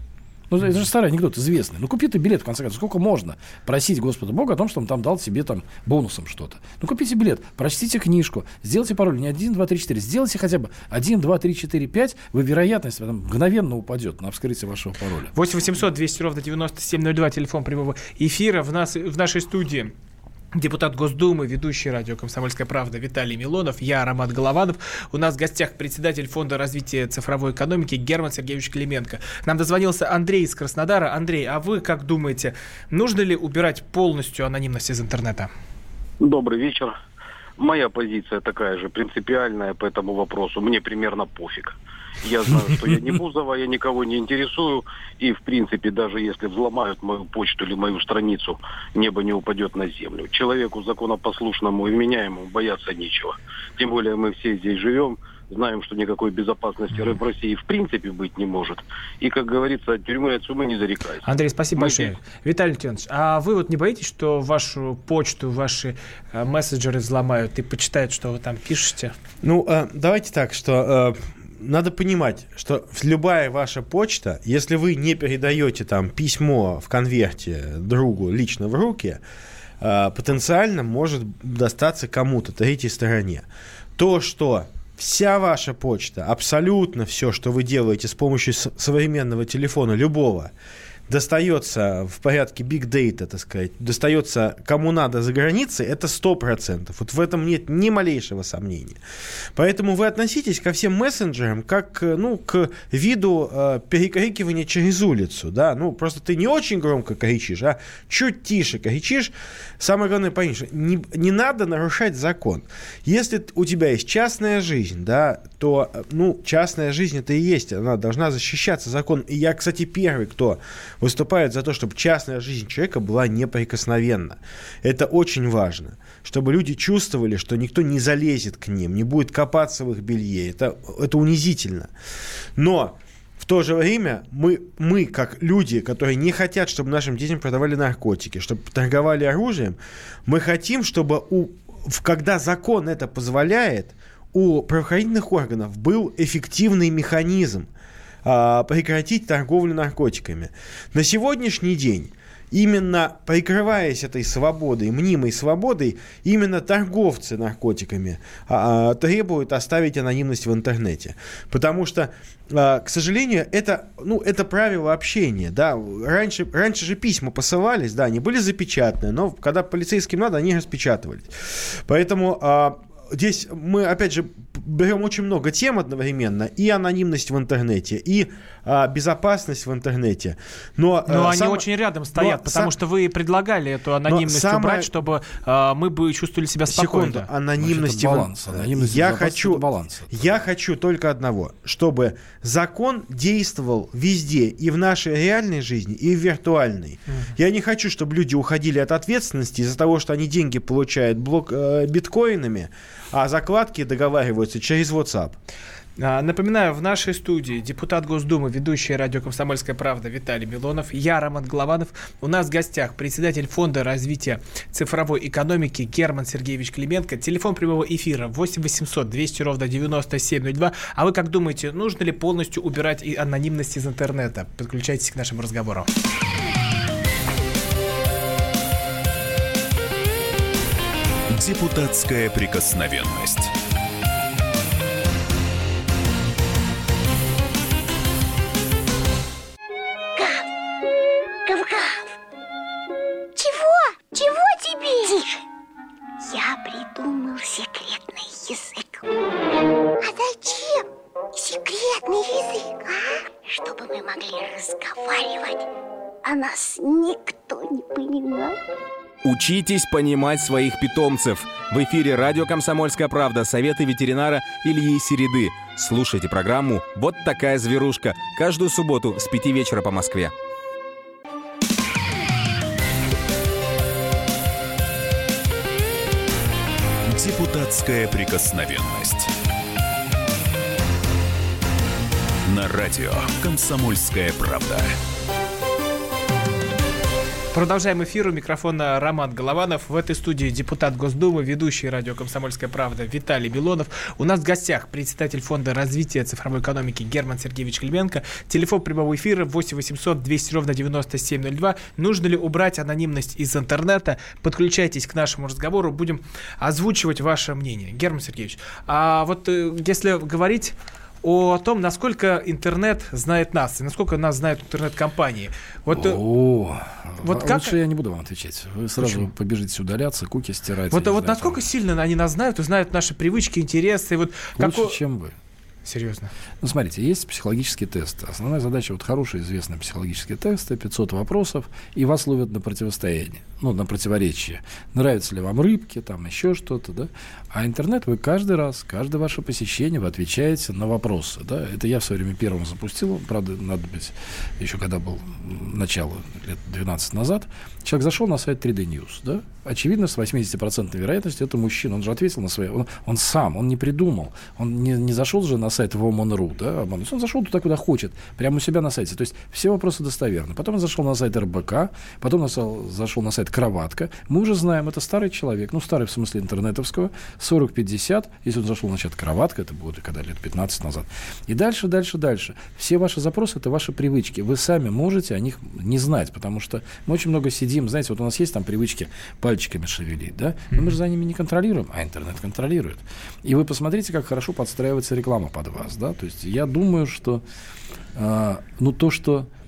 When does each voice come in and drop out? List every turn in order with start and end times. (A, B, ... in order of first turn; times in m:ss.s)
0:00.5-0:15.3 A
0:15.3-0:19.9 B
0:20.5-0:35.5 B
0:36.2-0:37.0 C
0:37.6-1:02.2 C
1:01.2-1:09.2 B
1:09.4-1:19.2 D
1:19.8-1:23.5 D
1:24.0-1:30.5 D
1:31.1-1:39.0 D
1:39.6-2:11.9 D
2:12.6-2:27.7 D
2:28.2-3:02.7 D
3:01.1-3:07.3 B
3:04.1-3:04.9 D
3:06.7-3:25.4 D
3:07.6-3:10.4 A
3:26.0-3:45.9 B
3:51.3-3:53.5 E
4:00.2-4:00.5 F
4:01.5-4:02.1 F
4:03.4-4:05.4 F
4:06.2-4:09.1 F
4:10.0-4:15.7 F
4:16.2-4:18.6 F
4:19.2-4:30.3 G
4:37.1-4:39.3 E
4:42.4-4:45.0 E
4:47.5-5:16.2 B
5:15.9-5:21.6 A
5:17.2-5:17.8 B
5:19.0-5:19.3 B
5:20.9-5:25.0 B
5:24.6-5:25.4 A
5:25.8-5:26.3 B
5:26.6-6:27.4 A
6:28.2-6:29.5 A